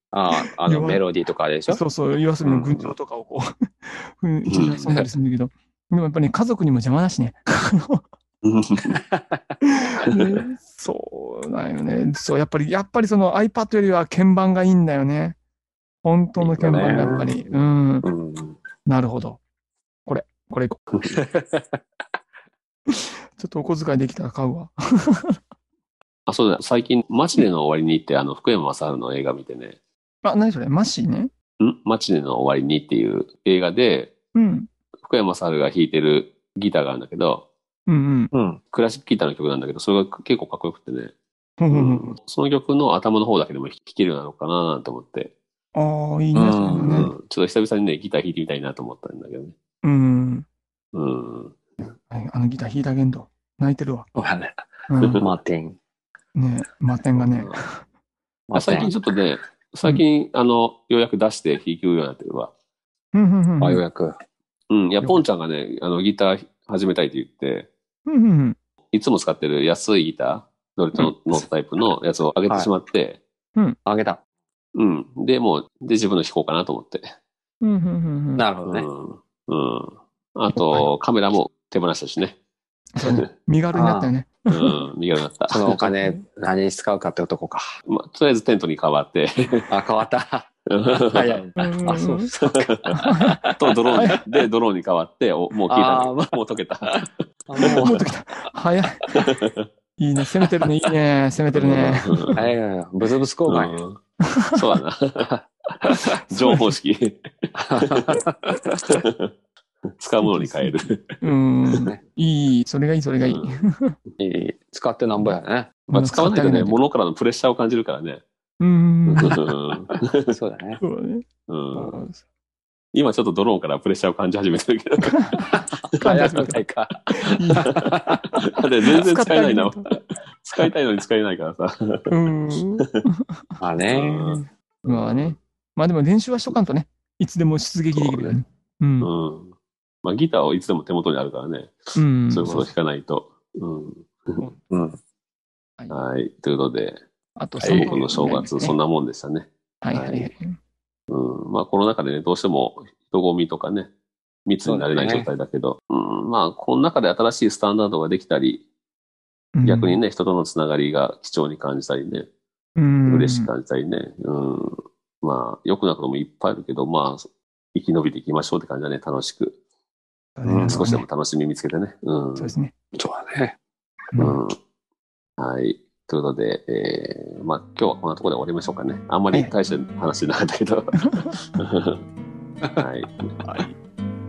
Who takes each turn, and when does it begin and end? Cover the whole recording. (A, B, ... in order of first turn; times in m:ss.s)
0:00.1-0:01.8 A
0:00.6-0:01.0 B
0:01.7-0:08.0 B
0:02.4-0:02.9 C
0:04.5-0:04.9 C
0:08.4-0:09.0 C
0:08.8-0:09.4 A
0:09.6-0:15.4 B
0:16.0-0:18.1 B
0:16.4-0:17.3 A
0:16.7-0:17.2 C
0:18.0-0:18.6 A
0:18.8-0:19.4 B
0:20.0-0:20.8 B
0:21.1-0:21.8 A
0:22.9-0:25.4 B
0:26.3-0:29.8 C
0:30.2-0:31.3 B
0:31.6-0:34.1 C
0:34.3-0:34.7 B
0:35.0-0:37.4 C
0:37.9-0:38.3 B
0:38.3-0:38.6 A
0:38.7-0:41.1 C
0:41.6-0:42.2 B
0:41.7-0:45.3 C
0:45.7-0:47.1 B
0:46.3-0:47.1 A
0:46.8-0:49.5 C
0:49.8-0:50.4 B
0:50.9-0:51.6 C
0:52.1-0:54.1 B
0:54.2-0:54.6 A
0:54.9-0:55.2 B
0:55.2-0:55.8 A
0:56.3-0:57.8 B
0:57.2-0:57.6 C
0:58.5-0:58.9 A
0:58.5-1:02.5 C
1:03.1-1:03.8 B
1:03.6-1:04.1 A
1:04.7-1:07.7 C
1:08.1-1:08.6 B
1:08.9-1:13.2 C
1:13.8-1:14.2 A
1:14.7-1:17.1 C
1:17.6-1:18.4 B
1:18.4-1:18.9 A
1:18.6-1:22.4 C
1:20.5-1:20.9 B
1:23.0-1:24.8 B
1:23.7-1:24.1 A
1:24.5-1:25.9 C
1:25.5-1:27.7 A
1:27.8-1:29.7 C
1:29.7-1:34.2 A
1:30.7-1:31.3 C
1:31.6-1:32.3 B
1:32.4-1:33.0 C
1:33.0-1:33.4 B
1:33.6-1:37.8 C
1:33.9-1:34.2 B
1:35.7-1:38.0 A
1:37.6-1:39.2 B
1:39.1-1:39.7 C
1:40.0-1:42.4 B
1:41.5-1:42.4 C
1:42.3-1:43.8 A
1:43.5-1:45.3 C
1:44.3-1:44.6 B
1:45.2-1:46.0 A
1:46.3-1:48.2 C
1:46.3-1:46.7 B
1:47.6-1:48.8 A
1:48.8-1:49.3 C
1:49.9-1:51.2 C
1:50.2-1:54.0 B
1:51.7-1:52.0 A
1:53.2-1:53.6 C
1:54.2-1:55.7 A
1:55.9-1:58.2 C
1:55.9-1:56.8 B
1:58.6-1:59.4 B
1:59.1-2:00.3 C
2:00.3-2:00.8 A
2:00.8-2:02.2 B
2:01.5-2:02.0 C
2:02.9-2:05.5 C
2:05.1-2:05.5 B
2:05.5-2:08.2 A
2:06.0-2:06.6 B
2:07.2-2:07.8 B
2:08.4-2:12.9 C
2:08.9-2:09.9 B
2:12.1-2:13.4 B
2:13.6-2:14.5 A
2:13.9-2:15.3 C
2:14.8-2:19.1 B
2:17.9-2:18.4 C
2:19.0-2:24.4 C
2:22.0-2:22.7 B
2:24.7-2:25.0 A
2:25.9-2:27.0 C
2:27.4-2:28.8 B
2:27.6-2:27.9 A
2:27.6-2:30.3 C
2:29.8-2:30.6 B
2:31.1-2:33.9 C
2:34.4-2:38.6 C
2:34.6-2:35.3 A
2:39.5-2:40.0 B
2:39.6-2:42.3 C
2:42.8-2:43.5 B
2:43.1-2:49.6 C
2:50.4-2:51.0 B
2:50.4-2:50.9 A
2:50.6-2:52.5 C
2:52.4-2:52.7 B
2:52.9-2:53.6 A
2:54.1-2:54.4 B
2:54.2-2:54.6 C
2:55.4-3:02.0 C
3:01.1-3:01.4 B
3:02.8-3:03.3 C
3:03.4-3:03.7 B